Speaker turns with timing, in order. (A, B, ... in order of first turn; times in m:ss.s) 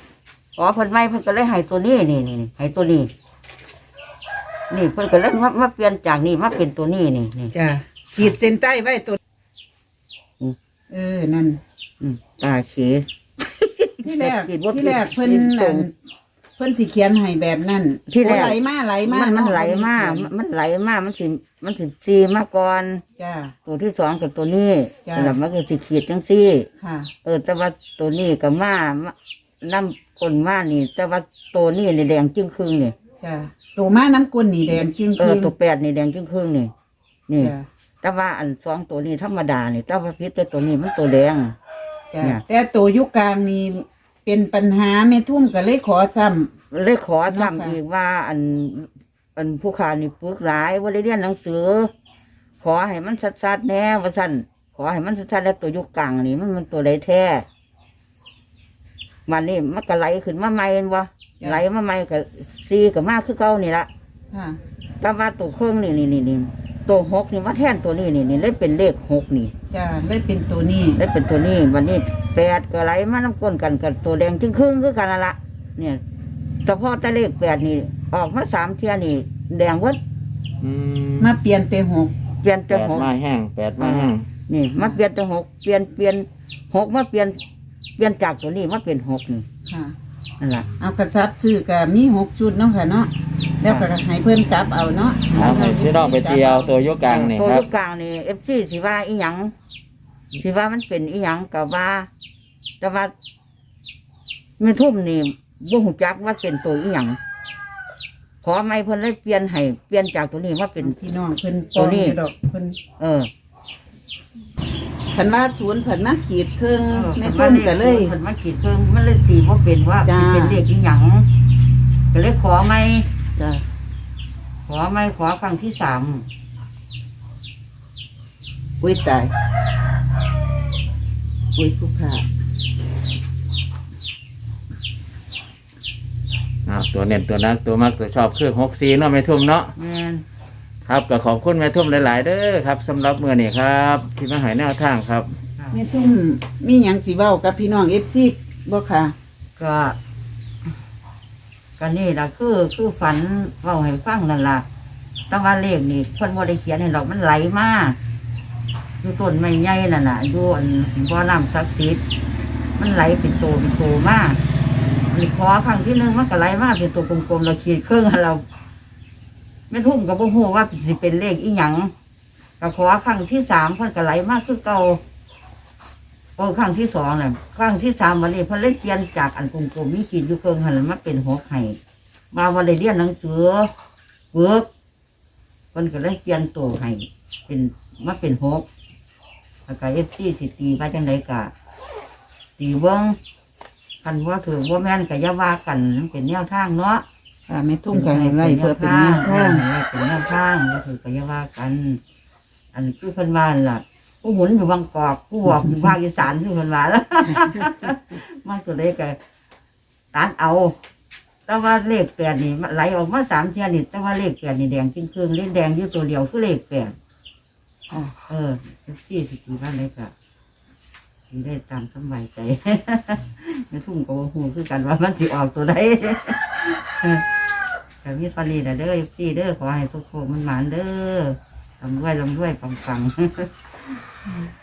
0:00.6-0:03.1 A
0:04.7-0:07.5 A
0:07.5-0:09.2 B
0:10.9-0:11.6 B
0:12.0-0:15.9 A
0:14.0-0:15.9 B
0:16.6-0:20.3 B
0:18.1-0:18.6 A
0:19.1-0:23.0 A
0:23.2-0:23.5 B
0:23.6-0:26.7 A
0:25.1-0:25.4 B
0:26.8-0:27.1 B
0:27.2-0:32.9 A
0:33.2-0:35.5 B
0:34.7-0:36.7 A
0:37.3-0:41.5 A
0:37.4-0:37.6 B
0:42.1-0:46.5 B
0:46.7-0:51.9 A
0:47.3-0:47.8 B
0:52.6-0:57.4 A
0:59.3-1:03.9 A
1:04.3-1:04.6 B
1:05.0-1:09.5 A
1:09.7-1:11.0 B
1:11.0-1:16.0 A
1:16.6-1:20.0 A
1:20.6-1:21.3 C
1:21.2-1:22.1 B
1:22.4-1:23.1 A
1:22.7-1:24.3 C
1:23.8-1:27.4 A
1:28.0-1:29.4 A
1:29.7-1:30.0 B
1:30.4-1:30.7 A
1:30.8-1:36.7 B
1:35.4-1:37.7 C
1:37.1-1:39.5 A
1:40.4-1:42.1 A
1:42.8-1:43.1 A
1:44.6-1:47.2 A
1:48.4-1:50.9 A
1:50.8-1:52.8 B
1:51.8-1:52.2 A
1:53.0-1:53.3 A
1:55.1-1:58.1 B
1:56.9-2:01.3 A
2:00.0-2:00.6 B
2:02.1-2:03.1 A
2:03.4-2:03.6 B
2:04.7-2:06.3 A
2:08.8-2:09.3 B
2:11.6-2:12.2 B
2:16.6-2:19.7 C
2:19.8-2:20.2 A
2:20.8-2:25.4 C
2:25.6-2:25.8 A
2:25.7-2:29.1 B
2:29.6-2:30.0 A
2:31.8-2:34.6 A
2:35.3-2:38.0 A
2:39.0-2:42.0 A
2:42.8-2:44.4 A
2:45.1-2:48.4 A
2:49.7-2:51.9 A
2:52.6-2:55.0 A
2:56.4-3:01.8 A
3:02.3-3:03.7 A
3:04.3-3:04.7 A
3:05.7-3:08.6 A
3:09.7-3:11.5 A
3:12.6-3:13.2 A
3:14.0-3:17.0 A
3:17.5-3:19.6 B
3:17.9-3:22.0 A
3:22.7-3:29.2 A
3:30.1-3:30.8 A
3:31.5-3:37.0 A
3:38.3-3:40.1 A
3:41.3-3:47.2 A
3:48.0-3:53.5 A